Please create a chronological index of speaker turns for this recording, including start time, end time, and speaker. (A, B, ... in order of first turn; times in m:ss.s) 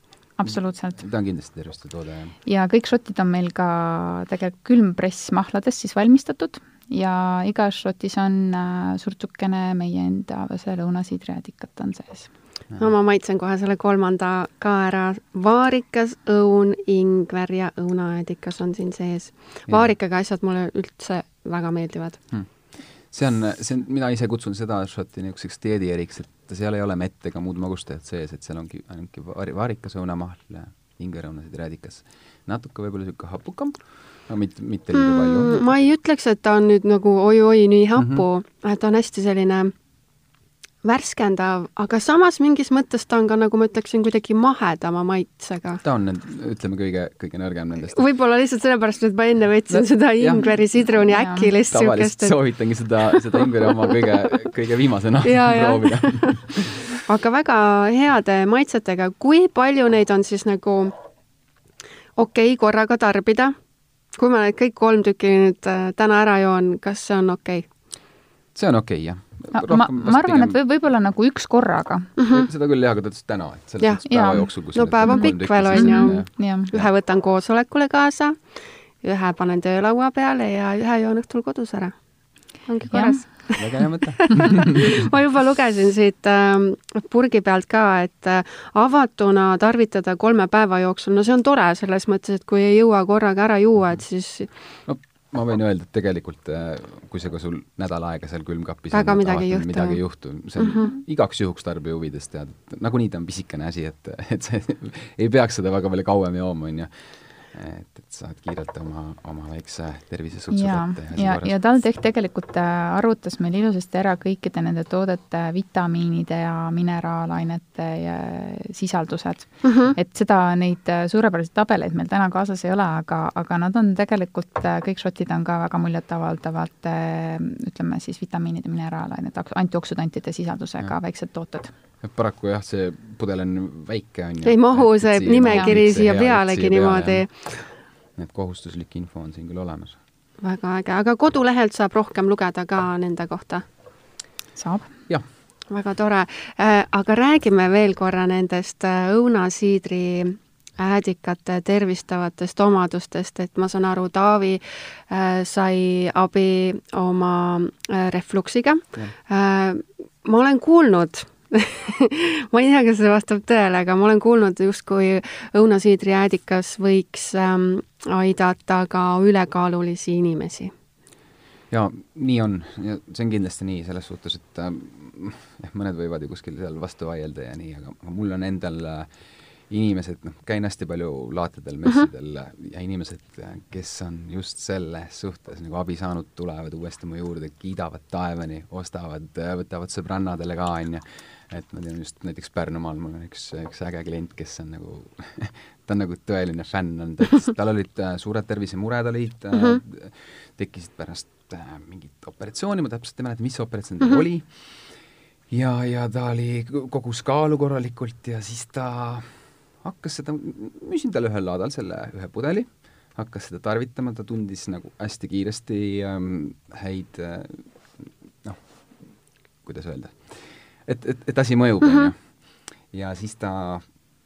0:00.4-0:01.0 A
0:00.5-0:02.4 B
0:02.5-0:12.3 A
0:12.8-0:22.2 C
0:19.7-0:19.9 B
0:23.1-0:35.7 B
0:34.9-0:39.7 C
0:38.0-0:38.2 B
0:40.8-0:45.8 C
0:45.8-0:48.0 B
0:47.9-0:52.4 C
0:49.7-0:50.5 B
0:51.1-0:51.5 A
0:51.7-0:56.9 B
0:55.2-0:56.4 C
0:57.1-1:00.9 C
1:02.2-1:03.6 C
1:04.1-1:07.7 C
1:08.6-1:10.6 B
1:09.5-1:12.1 A
1:12.2-1:12.5 C
1:12.3-1:16.9 B
1:13.8-1:18.4 C
1:14.1-1:14.5 A
1:15.0-1:16.7 A
1:19.0-1:22.0 C
1:22.6-1:34.5 C
1:22.9-1:23.3 A
1:23.5-1:25.1 B
1:34.9-1:51.6 B
1:38.9-1:40.0 C
1:40.6-1:40.9 C
1:50.5-2:11.7 A
1:59.6-1:59.9 C
2:12.0-2:20.0 B
2:14.4-2:17.3 C
2:20.4-2:23.6 C
2:24.6-2:24.9 A
2:25.7-2:50.7 C
2:51.7-2:59.1 B
2:59.7-3:24.7 B
3:19.6-3:19.8 C
3:25.5-3:38.6 B
3:39.6-3:42.2 B
3:42.9-3:43.9 B